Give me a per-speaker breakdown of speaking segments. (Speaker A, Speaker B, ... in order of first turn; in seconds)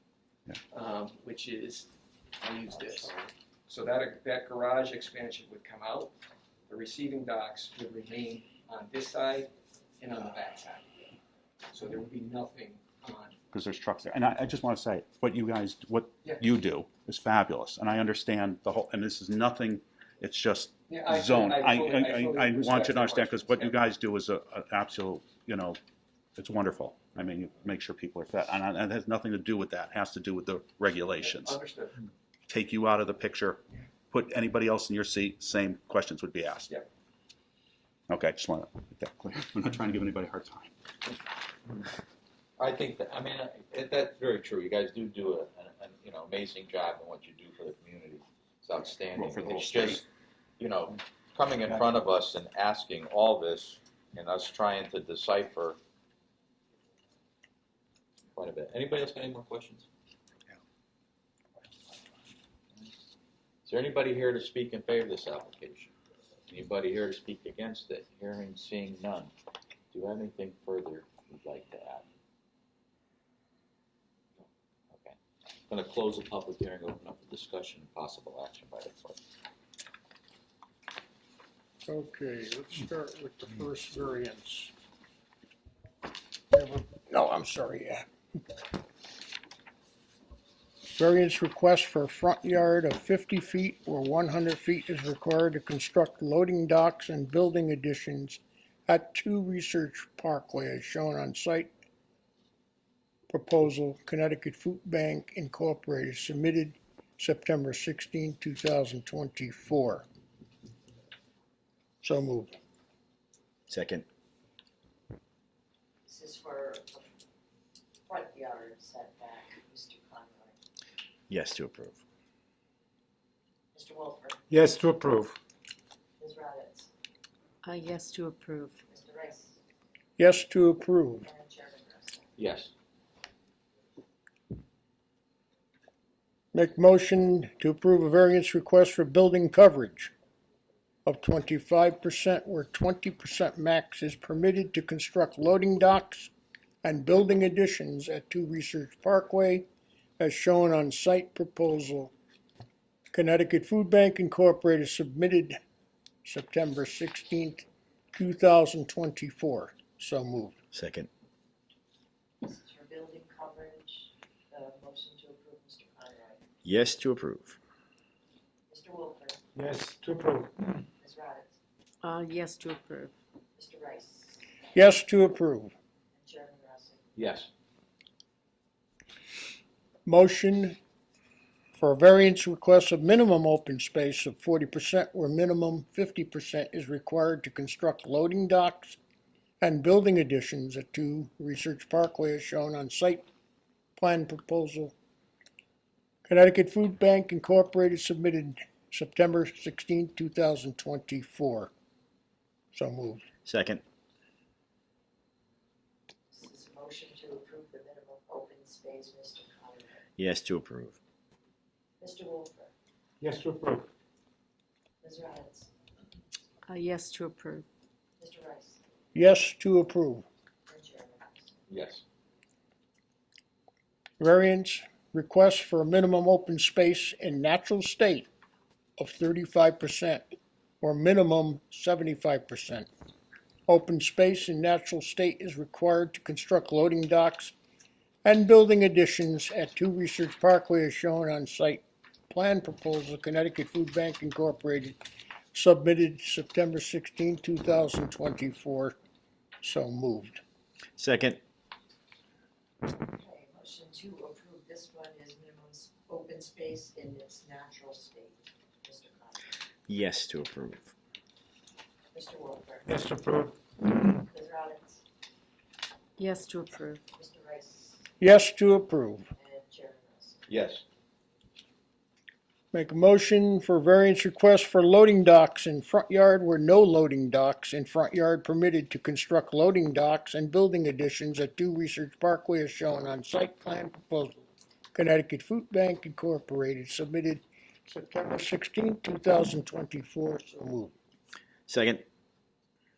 Speaker A: 0.7-3.1, 3.7-6.1, 6.7-10.8, 11.7-13.3, 20.9-23.8, 31.2-32.0
Speaker B: 2.7-3.1, 81.8-84.7, 86.5-88.0, 90.9-101.7, 103.3-110.0, 112.0-112.5, 130.2-131.2, 136.5-140.1, 141.1-146.3, 146.8-149.7, 150.2-152.1, 153.1-155.6, 156.2-157.6, 158.1-160.6, 174.7-175.7, 180.1-180.8, 181.8-189.0, 189.6-193.2, 194.0-194.9, 196.3-201.7, 202.7-203.2, 219.1-220.2, 224.2-228.3, 229.0-230.2, 230.8-232.9, 233.7-237.5, 238.2-245.0, 245.5-248.9, 249.6-250.4, 268.2-269.3, 272.7-290.9
Speaker C: 13.5-25.8, 26.4-31.6, 32.5-36.7, 38.1-40.7, 49.1-50.0
Speaker D: 42.6-50.0, 50.6-55.8, 58.4-59.9, 63.6-65.9, 66.5-69.3, 69.9-72.0, 74.4-75.2, 75.7-79.2, 132.4-132.7, 177.2-177.5, 221.7-222.0, 270.5-270.8
Speaker E: 113.7-114.0, 121.3-122.0, 160.7-161.1, 166.6-167.6, 203.4-203.8, 210.2-211.0, 250.9-251.4, 259.9-260.9, 291.7-292.0
Speaker F: 116.0-117.1, 118.1-120.6, 123.7-124.4, 126.2-126.9, 128.9-129.6, 131.2-132.3, 162.4-166.4, 168.7-169.4, 171.0-171.5, 173.5-174.4, 176.2-177.0, 206.3-210.0, 212.0-212.7, 215.0-215.7, 218.2-218.8, 220.7-221.6, 252.9-259.4, 262.1-262.9, 264.1-265.0, 267.1-268.1, 269.3-270.4
Speaker G: 124.6-125.3, 169.6-170.4, 213.3-213.8, 262.9-263.5
Speaker H: 127.6-128.8, 172.0-173.1, 216.7-217.6, 266.2-267.0